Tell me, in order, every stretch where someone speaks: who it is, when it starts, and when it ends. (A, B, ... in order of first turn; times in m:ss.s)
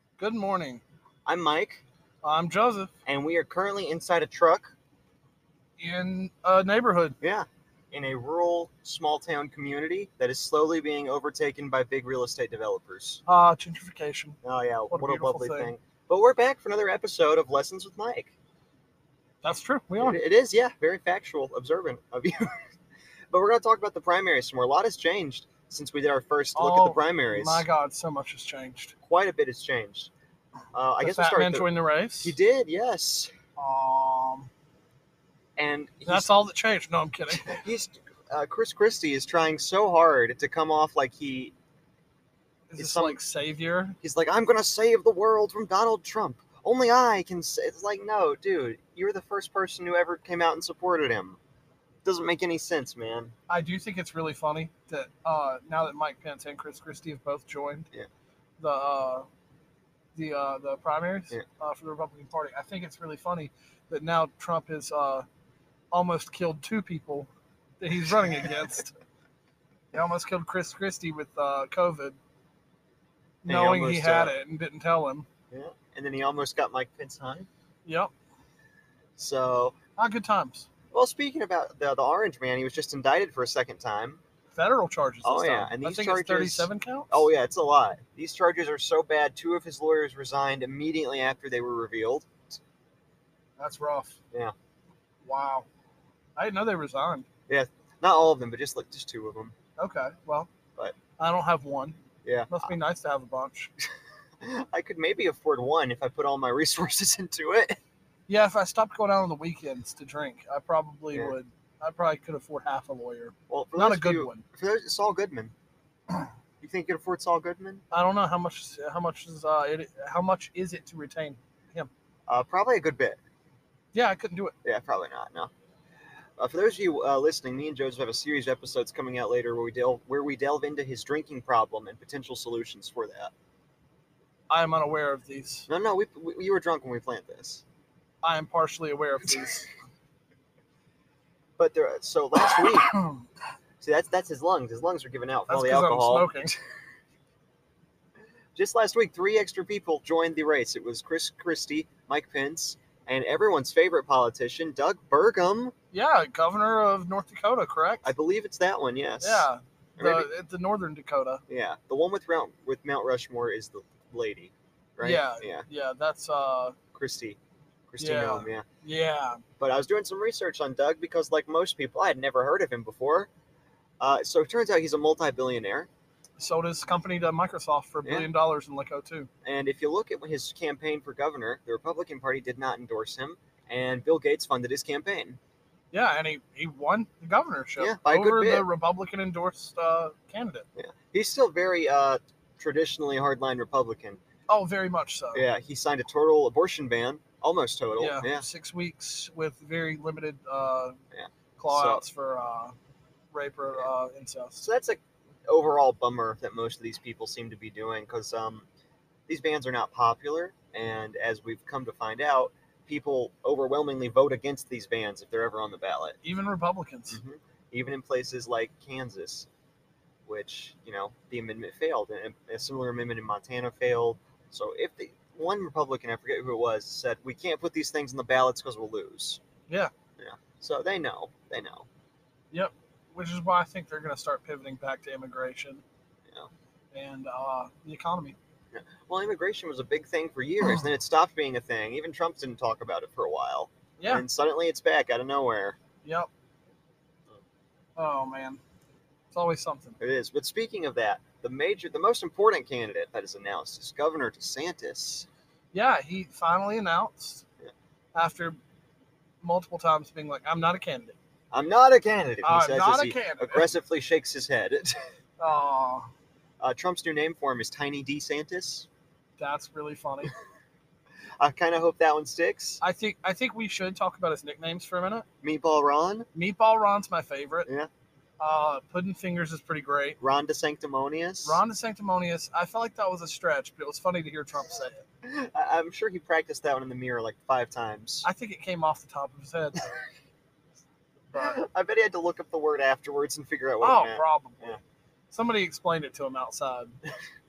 0:00.2-0:00.8 A
0:01.2-0:01.8 B
0:02.2-0:02.9 A
0:03.0-0:04.7 B
0:05.8-0:07.2 A
0:07.2-0:13.2 B
0:13.2-0:14.4 A
0:14.4-0:18.3 B
0:14.9-0:15.7 A
0:19.4-0:20.2 A
0:20.0-0:22.6 B
0:23.3-0:27.6 B
0:26.5-0:28.9 A
0:29.0-0:30.1 B
0:30.7-0:31.7 B
0:31.0-0:32.3 A
0:32.2-0:33.3 B
0:33.6-0:34.5 A
0:35.6-0:36.3 B
0:36.1-0:37.6 A
0:37.4-0:41.5 B
0:42.7-0:44.0 A
0:42.8-0:43.2 B
0:44.0-0:51.4 B
0:52.0-0:53.3 B
0:53.5-0:57.9 A
0:58.6-0:59.3 A
1:00.1-1:05.2 A
1:05.9-1:08.9 A
1:09.9-1:12.2 A
1:13.4-1:15.2 A
1:13.4-1:14.3 B
1:15.5-1:17.5 B
1:17.8-1:18.1 A
1:19.2-1:19.8 B
1:20.0-1:20.7 A
1:20.9-1:24.2 B
1:24.5-1:27.3 A
1:25.2-1:32.6 B
1:33.6-1:34.2 A
1:35.2-1:35.6 A
1:36.4-1:37.2 A
1:37.5-1:39.5 B
1:39.8-1:40.5 A
1:41.2-1:42.0 A
1:42.2-1:42.7 B
1:42.5-1:43.7 A
1:44.4-1:47.8 B
1:48.3-1:54.4 A
1:53.5-1:55.5 B
1:56.6-1:57.8 B
1:57.9-2:01.9 A
2:02.3-2:03.2 B
2:03.9-2:04.5 A
2:04.6-2:05.5 B
2:06.4-2:13.3 B
2:14.5-2:15.7 A
2:15.7-2:17.6 B
2:18.2-2:19.7 A
2:21.6-2:23.0 B
2:22.5-2:23.2 A
2:23.8-2:26.5 B
2:25.5-2:26.6 A
2:28.5-2:35.7 B
2:35.9-2:38.1 A
2:38.0-2:40.3 B
2:39.2-2:41.4 A
2:41.5-2:45.6 B
2:45.0-2:46.8 A
2:46.9-2:47.4 B
2:47.9-2:48.6 B
2:48.0-2:49.4 A
2:49.6-2:53.3 B
2:54.0-2:55.9 B
2:56.4-2:59.3 A
2:59.4-3:05.4 B
3:05.9-3:10.6 A
3:07.8-3:08.6 B
3:10.8-3:14.2 B
3:14.5-3:15.4 A
3:15.3-3:18.4 B
3:18.0-3:21.0 A
3:21.1-3:22.0 B
3:21.6-3:22.7 A
3:23.3-3:24.6 A
3:24.6-3:28.6 B
3:29.3-3:36.2 B
3:36.2-3:37.2 A
3:37.1-3:39.5 B
3:40.2-3:49.4 B
3:50.2-3:51.9 B
3:52.5-3:55.8 A
3:56.9-3:58.4 A
3:58.7-4:05.8 B
4:04.0-4:04.2 A
4:06.0-4:06.3 A
4:08.0-4:08.6 A
4:09.3-4:10.0 A
4:10.0-4:15.3 B
4:15.7-4:17.4 A
4:18.1-4:18.6 A
4:19.4-4:21.2 A
4:21.5-4:25.0 B
4:22.4-4:23.7 A
4:25.4-4:26.1 A
4:26.6-4:28.9 B
4:29.4-4:30.3 A
4:31.4-4:32.8 B
4:32.8-4:35.2 A
4:35.4-4:36.2 B
4:36.3-4:37.7 A
4:38.4-4:40.2 A
4:40.2-4:41.6 B
4:41.4-4:45.0 A
4:45.2-4:48.3 B
4:48.2-4:49.9 A
4:51.3-4:51.6 A
4:51.3-4:54.8 B
4:53.8-4:54.8 A
4:55.3-4:57.0 A